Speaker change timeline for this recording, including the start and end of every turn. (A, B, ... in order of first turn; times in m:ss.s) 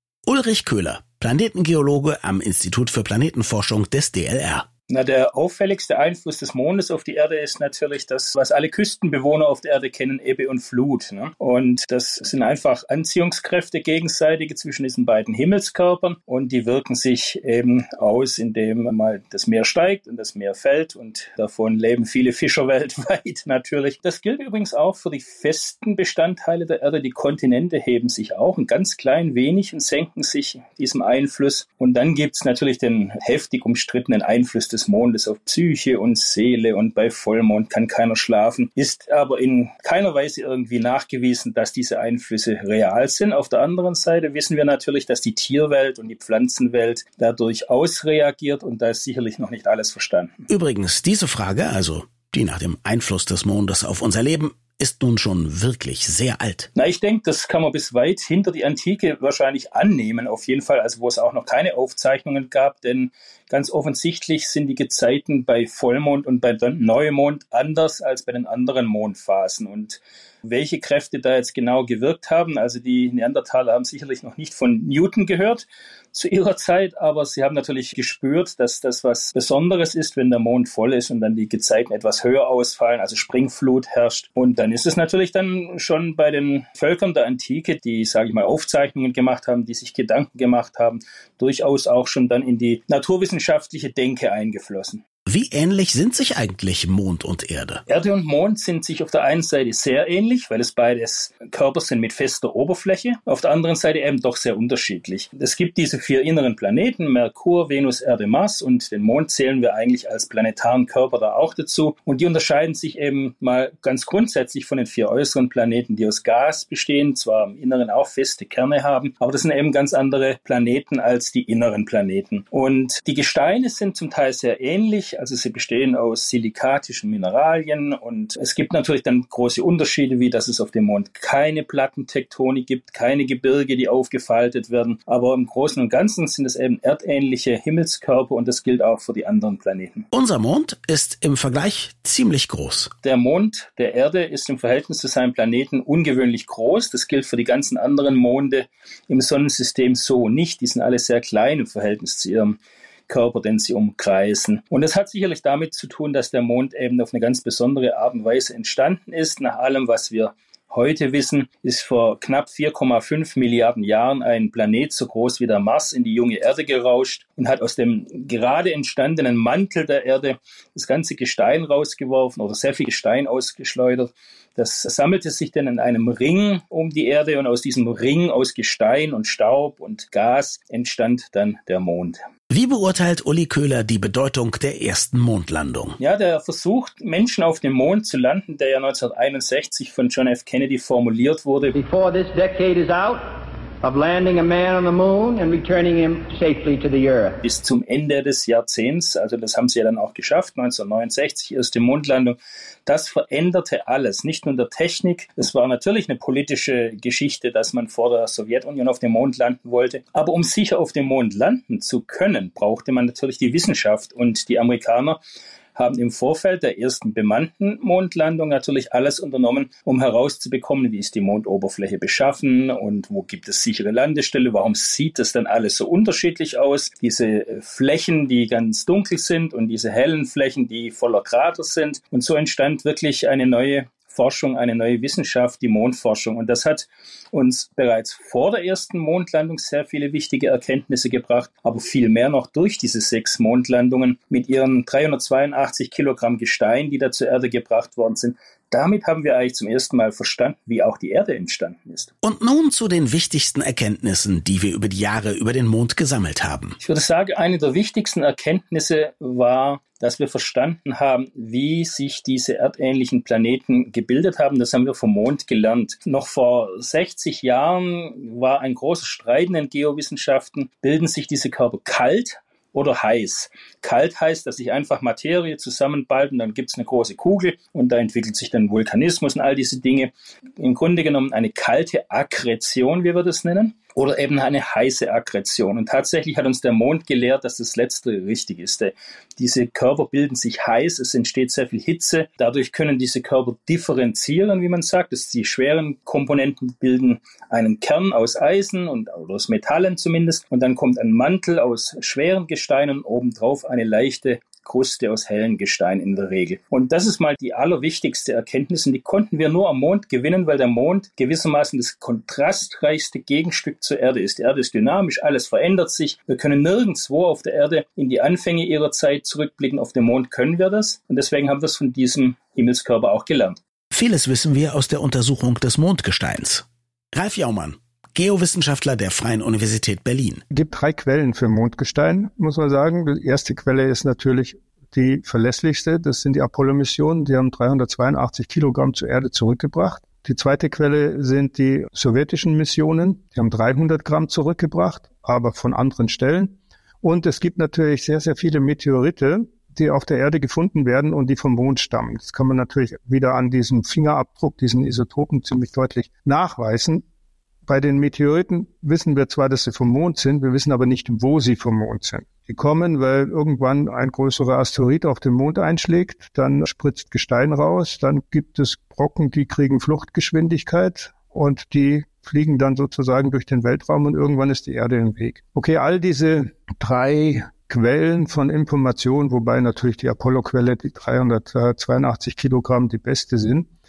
0:00.3-0:04.7 A
0:04.9-0:50.4 B
0:50.5-0:56.7 A
0:56.8-1:35.0 B
1:35.3-1:37.8 A
1:37.9-2:20.1 B
2:20.1-2:22.9 A
2:23.0-3:02.2 B
3:02.5-3:06.0 A
3:06.0-3:11.8 B
3:11.8-3:13.3 C
3:13.8-3:17.4 C
3:17.4-3:35.2 B
3:35.8-4:12.1 B
4:12.2-4:16.8 A
4:16.8-5:23.6 B
5:23.9-5:30.4 A
5:30.5-5:57.0 D
5:57.6-6:23.7 D